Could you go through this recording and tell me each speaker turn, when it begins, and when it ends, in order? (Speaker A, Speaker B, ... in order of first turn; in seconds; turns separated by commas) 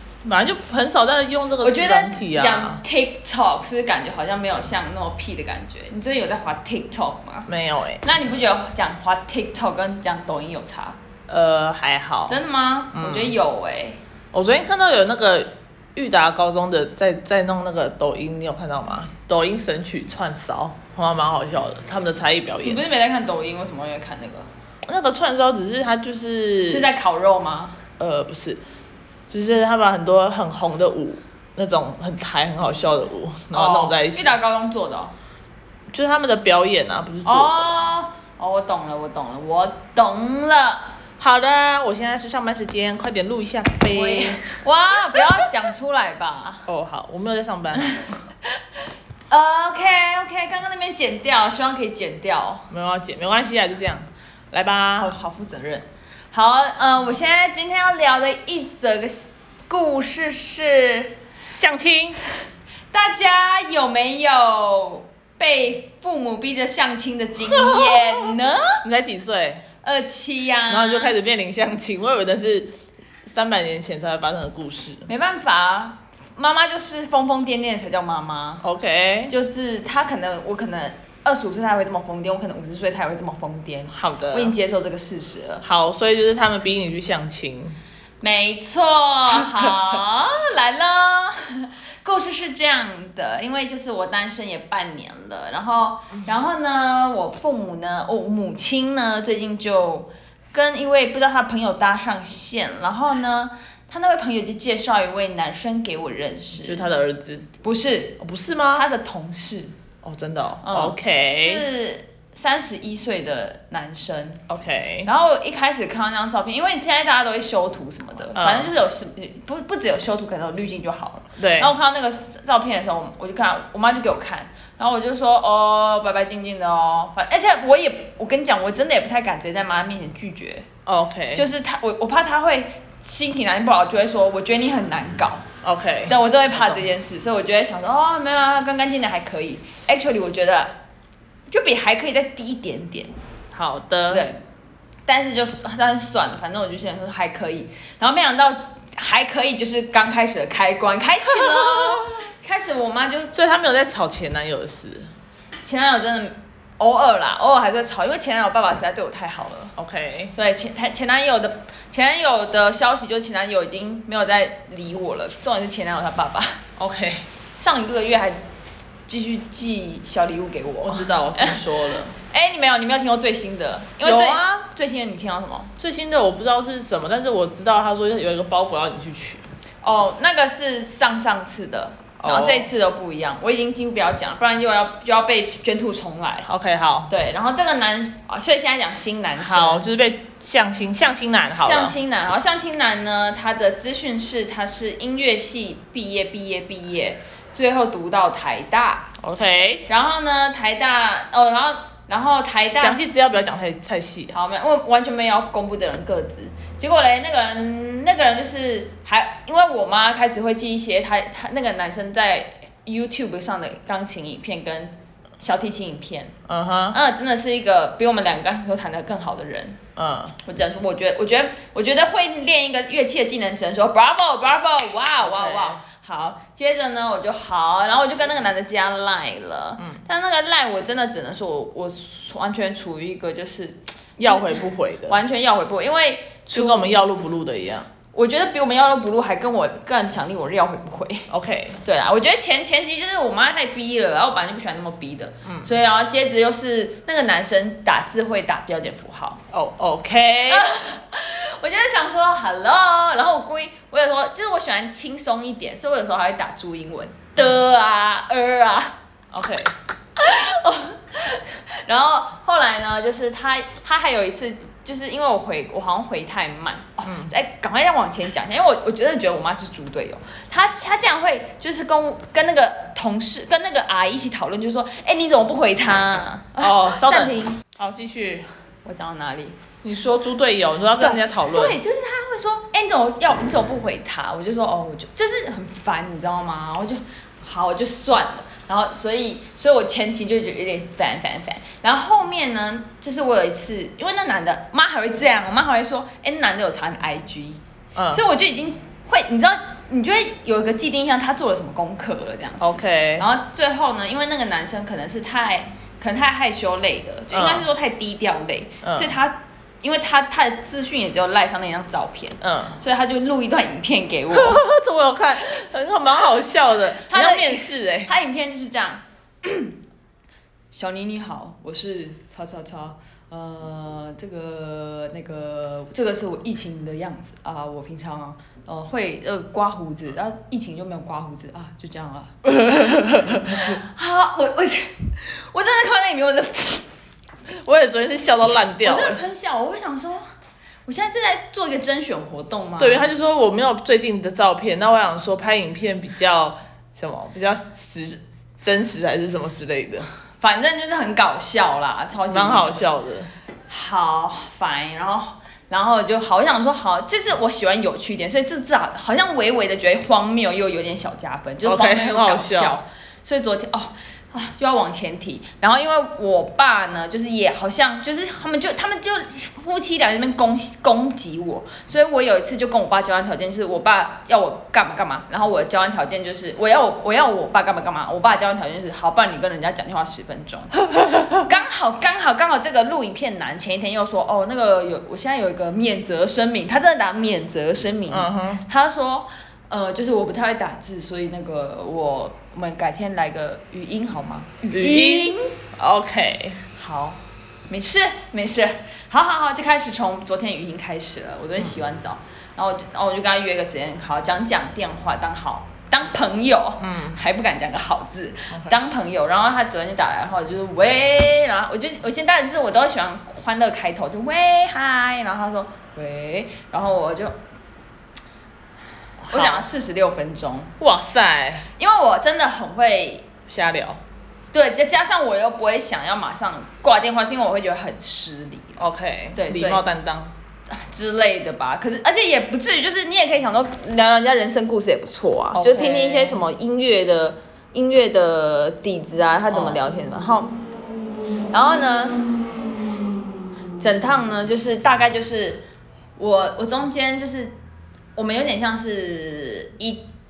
Speaker A: 0.2-2.8, Speaker B: 1.6-7.5, Speaker A: 7.5-8.0, Speaker B: 8.0-11.0, Speaker A: 11.3-12.4, Speaker B: 12.3-14.0, Speaker A: 12.9-13.3, Speaker A: 14.3-22.8, Speaker B: 22.6-24.5, Speaker A: 24.9-26.9, Speaker B: 26.7-27.9, Speaker A: 28.0-28.6, Speaker A: 29.3-34.3, Speaker B: 33.5-35.1, Speaker A: 35.9-37.8, Speaker B: 37.2-41.0, Speaker A: 41.2-44.5, Speaker B: 43.9-46.7, Speaker A: 46.7-48.2, Speaker B: 47.8-48.0, Speaker B: 49.3-52.7, Speaker A: 52.7-55.1, Speaker B: 55.0-61.2, Speaker A: 61.4-62.2, Speaker B: 62.9-68.8, Speaker A: 67.5-68.0, Speaker A: 68.8-69.6, Speaker B: 69.8-71.2, Speaker A: 70.7-72.7, Speaker A: 73.2-75.1, Speaker B: 75.1-78.6, Speaker A: 78.6-79.3, Speaker B: 79.3-85.6, Speaker A: 83.9-84.5, Speaker A: 85.6-87.8, Speaker B: 88.2-106.8, Speaker A: 106.6-107.5, Speaker B: 107.6-108.2, Speaker A: 108.2-108.8, Speaker B: 108.7-109.8, Speaker A: 110.0-111.7, Speaker B: 110.6-114.4, Speaker A: 114.5-115.1, Speaker B: 115.0-130.7, Speaker A: 118.3-118.7, Speaker A: 121.4-121.7, Speaker A: 130.9-131.5, Speaker B: 131.3-135.5, Speaker A: 135.6-136.8, Speaker B: 136.1-140.8, Speaker B: 141.5-143.1, Speaker A: 143.5-144.3, Speaker B: 144.1-144.4, Speaker B: 145.1-153.3, Speaker A: 153.3-155.1, Speaker B: 155.6-159.8, Speaker A: 159.8-160.3, Speaker B: 160.3-166.6, Speaker A: 166.8-167.3, Speaker B: 167.5-168.4, Speaker B: 169.1-175.7, Speaker A: 170.8-172.2, Speaker A: 174.0-174.4, Speaker A: 175.8-179.5, Speaker B: 179.8-186.5, Speaker A: 182.2-182.7, Speaker A: 186.5-187.1, Speaker B: 187.1-189.8, Speaker A: 189.4-192.0, Speaker B: 191.6-199.1, Speaker A: 199.2-199.9, Speaker B: 199.9-203.0, Speaker A: 202.7-204.3, Speaker B: 204.3-216.3, Speaker A: 216.5-217.0, Speaker B: 216.9-219.8, Speaker A: 220.0-220.4, Speaker B: 220.4-237.0, Speaker A: 225.2-225.8, Speaker A: 234.2-235.2, Speaker A: 236.5-237.9, Speaker B: 238.1-241.3, Speaker A: 241.3-241.8, Speaker B: 241.8-249.4, Speaker A: 249.5-250.7, Speaker B: 250.5-259.0, Speaker A: 259.3-259.7, Speaker B: 260.2-277.6, Speaker A: 267.1-267.3, Speaker A: 276.6-278.5, Speaker B: 278.9-279.6, Speaker A: 279.8-281.8, Speaker B: 280.9-297.6, Speaker A: 297.9-298.2, Speaker B: 298.1-314.6, Speaker A: 302.6-303.2, Speaker A: 307.3-307.7, Speaker A: 308.8-309.1, Speaker A: 312.4-312.8, Speaker A: 314.3-318.1, Speaker B: 317.0-319.8, Speaker B: 320.7-332.4, Speaker A: 332.5-333.7, Speaker B: 333.4-336.9, Speaker A: 337.6-339.2, Speaker B: 338.8-340.2, Speaker B: 340.9-343.1, Speaker A: 342.8-350.1, Speaker B: 350.4-352.9, Speaker A: 352.3-353.3, Speaker B: 353.7-395.6, Speaker A: 361.6-362.8, Speaker A: 388.1-388.6, Speaker A: 394.7-396.6, Speaker B: 396.7-417.4, Speaker A: 406.8-407.2, Speaker A: 408.5-408.8, Speaker A: 419.2-419.7, Speaker B: 419.3-420.7, Speaker A: 420.8-421.7, Speaker B: 421.8-423.3, Speaker A: 423.5-424.0, Speaker B: 424.5-429.8, Speaker A: 428.8-430.3, Speaker B: 430.7-440.5, Speaker A: 435.5-436.4, Speaker A: 439.5-439.8, Speaker B: 441.5-442.3, Speaker B: 443.8-445.6, Speaker B: 446.2-447.6, Speaker B: 448.2-450.1